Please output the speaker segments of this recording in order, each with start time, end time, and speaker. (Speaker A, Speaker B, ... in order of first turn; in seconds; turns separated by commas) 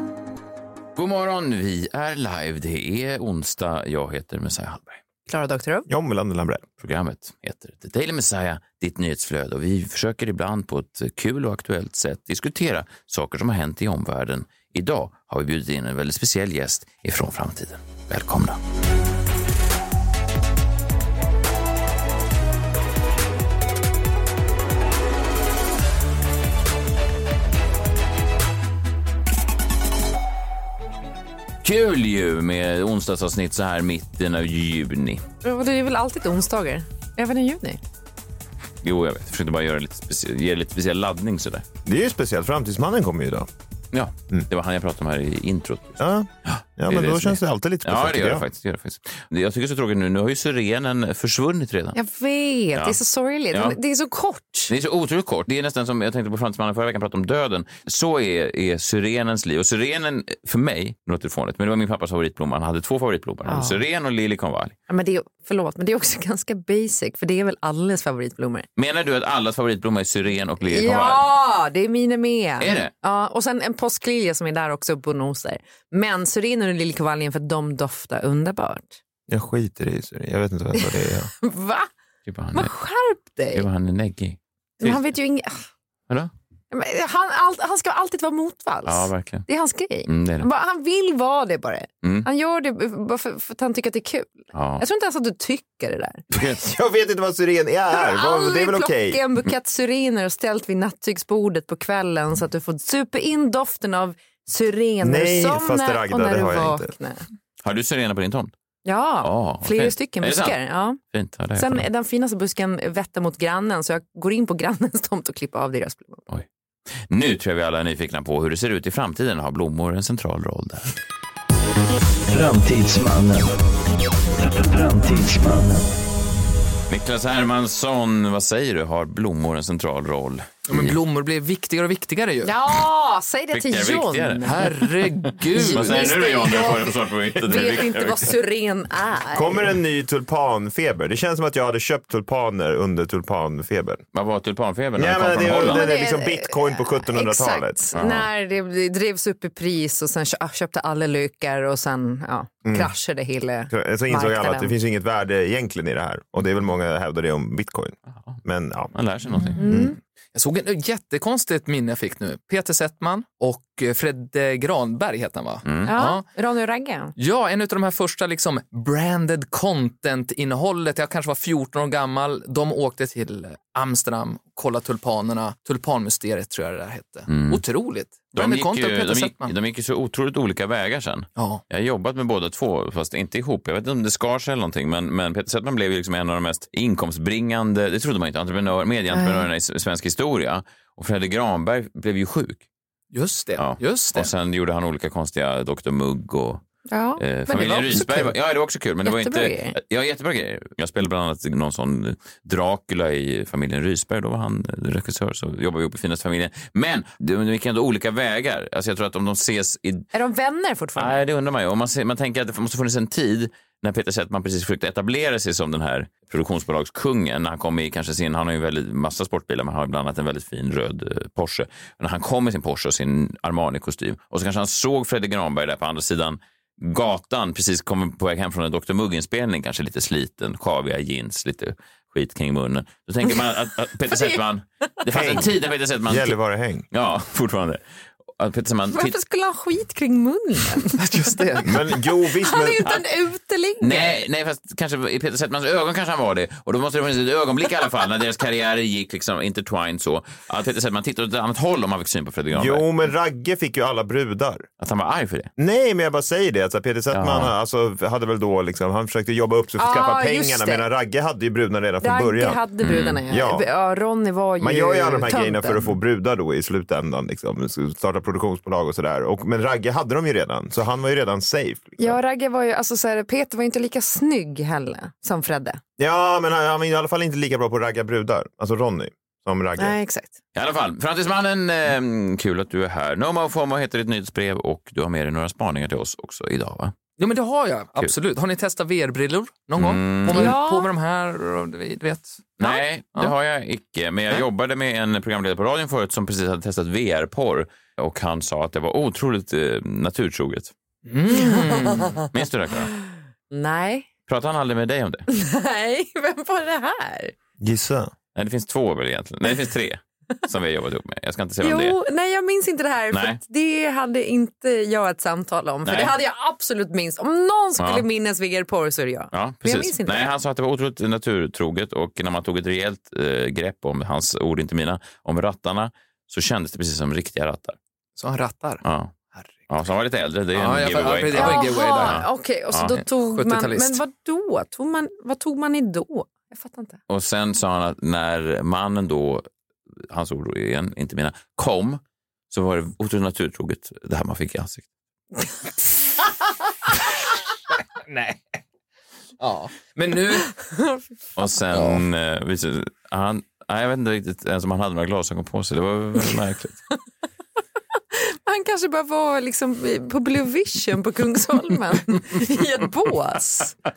Speaker A: 1.0-5.0, Speaker B: 5.3-5.9, Speaker C: 5.9-6.7, Speaker A: 6.8-18.6, Speaker A: 31.6-35.2, Speaker B: 35.4-37.8, Speaker A: 38.8-41.7, Speaker C: 41.9-43.5, Speaker A: 43.9-52.0, Speaker C: 46.0-48.5, Speaker B: 51.9-54.7, Speaker A: 53.5-53.8, Speaker A: 54.7-64.8, Speaker B: 63.5-63.8, Speaker B: 64.9-68.7, Speaker A: 68.8-71.2, Speaker B: 70.6-79.0, Speaker A: 72.6-72.9, Speaker C: 79.3-81.3, Speaker B: 81.4-81.9, Speaker A: 82.3-82.7, Speaker B: 82.5-83.7, Speaker A: 83.5-85.0, Speaker B: 84.8-85.7, Speaker B: 86.7-96.2, Speaker A: 88.8-89.5, Speaker A: 90.1-90.5, Speaker A: 94.5-94.8, Speaker C: 96.3-99.2, Speaker B: 97.9-107.2, Speaker C: 105.0-106.9, Speaker A: 107.6-108.5, Speaker B: 108.8-111.0, Speaker A: 109.2-111.9, Speaker B: 111.6-116.2, Speaker A: 117.1-121.0, Speaker D: 122.3-123.6, Speaker D: 124.4-125.9, Speaker A: 126.9-131.0, Speaker E: 130.7-132.5, Speaker B: 132.4-134.7, Speaker A: 133.5-134.9, Speaker E: 134.4-136.1, Speaker B: 135.5-139.7, Speaker A: 135.5-138.3, Speaker C: 139.3-144.0, Speaker A: 144.1-145.9, Speaker C: 145.0-147.8, Speaker B: 145.6-154.7, Speaker A: 147.9-148.3, Speaker C: 152.7-152.9, Speaker C: 153.7-158.9, Speaker A: 158.9-159.6, Speaker E: 159.3-159.8, Speaker C: 159.6-159.9, Speaker B: 159.6-160.0, Speaker E: 160.3-166.2, Speaker A: 165.7-165.9, Speaker B: 165.8-167.1, Speaker E: 167.2-179.5, Speaker A: 177.3-177.6, Speaker A: 178.3-192.6, Speaker E: 181.4-181.6, Speaker B: 189.1-189.5, Speaker E: 193.1-194.3, Speaker A: 193.6-196.6, Speaker B: 196.9-198.3, Speaker A: 197.2-210.1, Speaker B: 199.0-199.8, Speaker B: 210.1-211.2, Speaker A: 211.0-236.4, Speaker B: 234.1-234.4, Speaker C: 235.1-235.5, Speaker C: 236.1-236.8, Speaker A: 236.9-239.2, Speaker B: 238.9-241.7, Speaker E: 241.0-241.8, Speaker C: 241.6-242.8, Speaker B: 242.3-244.2, Speaker A: 243.8-252.9, Speaker C: 252.5-254.7, Speaker A: 254.8-255.5, Speaker C: 255.6-262.6, Speaker A: 257.1-257.5, Speaker B: 259.8-260.9, Speaker B: 262.0-265.9, Speaker A: 262.8-263.2, Speaker C: 263.3-263.7, Speaker C: 264.6-272.2, Speaker B: 272.0-275.8, Speaker C: 276.0-280.0, Speaker B: 279.8-280.3, Speaker A: 280.5-286.9, Speaker E: 287.2-293.3, Speaker A: 289.8-290.6, Speaker B: 290.3-290.9, Speaker A: 292.6-300.7, Speaker E: 301.1-302.2, Speaker B: 301.3-302.2, Speaker A: 302.3-302.9, Speaker B: 303.1-304.1, Speaker A: 304.3-305.3, Speaker B: 305.3-307.3, Speaker C: 307.6-308.1, Speaker A: 308.4-312.0, Speaker B: 311.6-320.3, Speaker A: 313.1-313.4, Speaker A: 315.9-316.1, Speaker A: 317.8-318.1, Speaker A: 319.3-327.8, Speaker E: 328.2-329.6, Speaker A: 328.8-329.1, Speaker A: 329.7-333.0, Speaker E: 330.5-332.2, Speaker B: 331.3-337.0, Speaker E: 333.0-334.0, Speaker A: 337.1-339.5, Speaker A: 340.1-344.9, Speaker E: 348.0-348.6, Speaker E: 349.4-350.5, Speaker B: 350.7-351.0, Speaker A: 351.4-356.8, Speaker E: 351.7-352.0, Speaker B: 358.1-363.8